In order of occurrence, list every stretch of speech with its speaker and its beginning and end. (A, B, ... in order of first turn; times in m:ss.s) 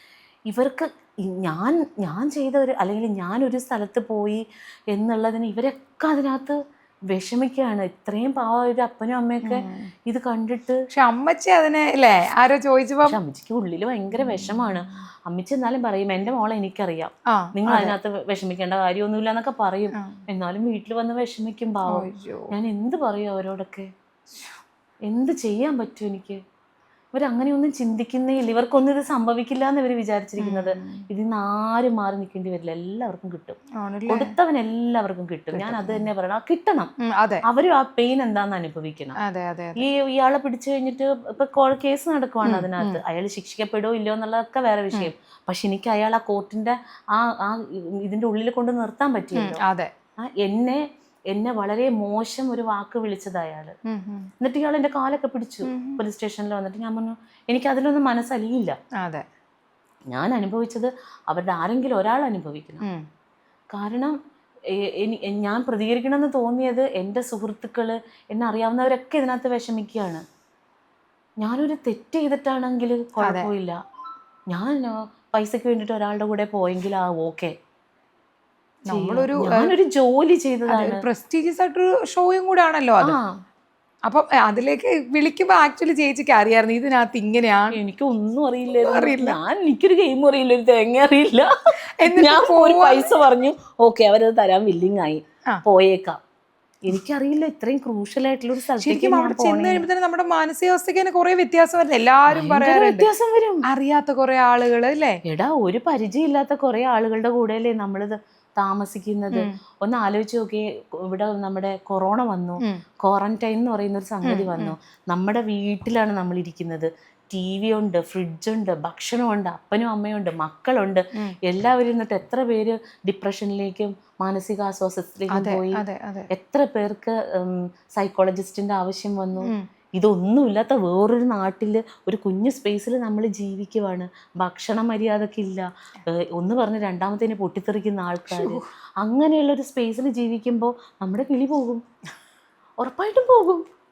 0:00.5-0:06.6 A
0:07.1-0:10.8 A
0:09.4-0:09.9 B
0:10.9-0:13.2 B
0:13.0-0:23.9 A
0:14.1-0:14.7 B
0:17.3-0:18.0 B
0:19.9-0:20.2 B
0:21.9-0:22.5 B
0:25.1-0:26.4 A
0:27.1-0:36.9 A
0:30.4-0:31.1 B
0:33.8-0:34.3 B
0:35.5-0:36.1 B
0:37.0-0:37.4 B
0:37.5-0:39.2 A
0:39.2-0:39.8 B
0:39.8-0:49.6 A
0:42.4-0:43.0 B
0:49.4-0:49.9 B
0:50.2-0:53.8 A
0:53.9-0:54.3 B
0:54.4-0:58.8 A
0:55.6-0:56.0 B
0:59.0-0:59.2 B
1:00.1-1:02.8 A
1:03.7-1:04.2 A
1:04.8-1:10.2 A
1:11.4-1:13.8 A
1:13.2-1:13.5 B
1:14.5-1:17.6 A
1:18.9-1:19.7 B
1:18.9-1:21.0 A
1:20.7-1:23.2 B
1:23.0-1:23.4 A
1:24.1-1:27.8 B
1:27.7-1:31.5 A
1:28.8-1:29.4 B
1:32.0-1:33.2 B
1:32.0-1:36.2 A
1:36.8-1:39.9 A
1:38.8-1:43.1 B
1:42.3-1:43.6 A
1:43.7-1:45.2 B
1:45.2-2:21.8 A
1:54.2-1:54.8 B
2:05.3-2:06.3 B
2:18.3-2:18.7 B
2:22.8-2:23.6 A